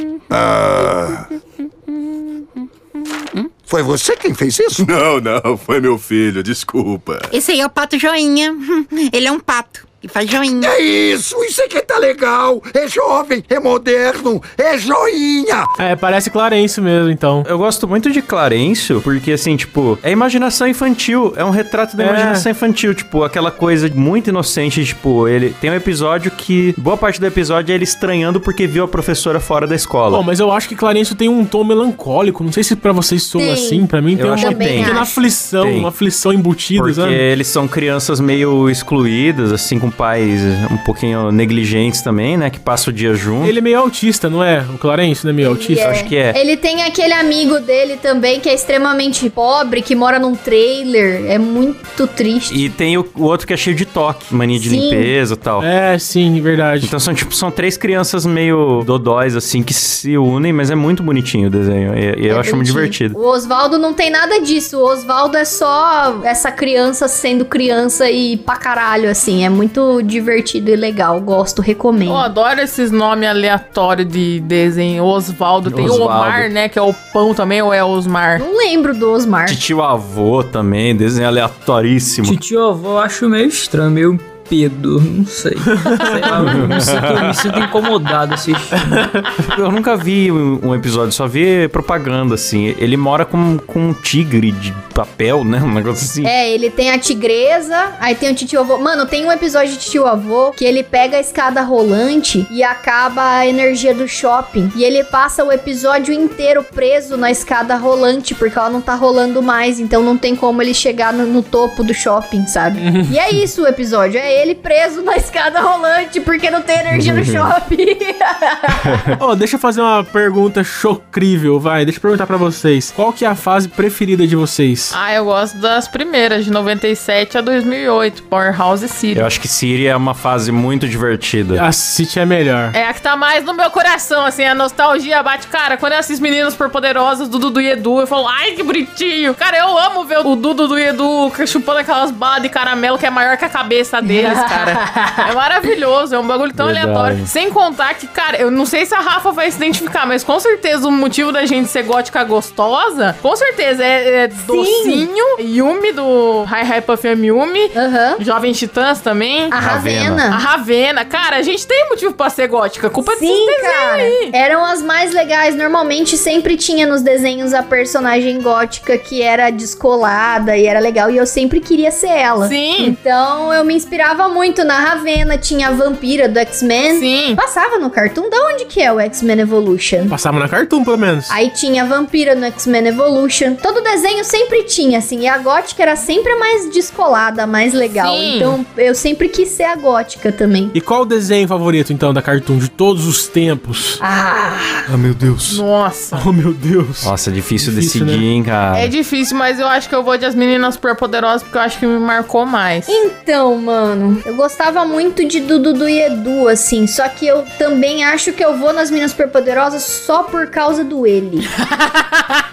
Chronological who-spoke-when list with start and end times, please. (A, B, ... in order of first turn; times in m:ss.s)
0:00.3-0:01.2 A
0:02.3-0:02.6 B
0:03.7-0:04.9 A
0:04.8-0:07.3 C
0:07.3-0:10.7 B
0:10.6-0:15.7 A
0:15.8-0:17.5 D
0:17.5-0:30.2 E
0:22.0-0:22.5 D
0:30.1-0:37.2 D
0:33.4-0:35.2 F
0:34.2-0:35.0 E
0:35.6-0:35.9 E
0:36.8-0:43.6 E
0:43.4-0:46.1 D
0:45.4-0:52.6 F
0:45.8-0:46.4 E
0:52.5-0:55.7 E
0:54.6-0:55.1 F
0:55.6-0:56.9 D
0:56.8-1:03.2 E
1:02.3-1:12.3 F
1:12.1-1:18.4 G
1:15.7-1:16.5 E
1:18.4-1:19.6 F
1:19.5-1:22.4 E
1:22.2-1:29.1 H
1:25.9-1:26.5 D
1:26.3-1:27.6 E
1:29.4-1:36.3 E
1:36.2-1:59.1 F
1:52.8-1:53.2 D
1:56.9-1:57.5 E
1:58.8-1:59.2 E
1:59.2-2:05.0 D
2:04.9-2:09.3 G
2:09.1-2:11.6 E
2:11.6-2:12.8 D
2:12.7-2:39.5 G
2:24.0-2:25.3 F
2:26.6-2:27.3 E
2:34.4-2:35.1 F
2:37.7-2:38.2 F
2:39.5-2:40.4 F
2:39.6-2:40.2 E
2:40.3-2:44.3 G
2:43.1-3:00.2 F
2:52.4-2:53.0 G
2:56.9-2:57.4 G
3:00.1-3:01.3 D
3:01.3-3:10.8 F
3:07.9-3:08.6 G
3:10.7-3:14.0 D
3:14.0-3:14.9 F
3:14.9-3:15.6 E
3:15.5-3:16.3 G
3:16.1-3:18.2 D
3:17.0-3:18.9 E
3:18.7-3:23.0 G
3:22.9-3:31.5 F
3:31.7-3:32.4 G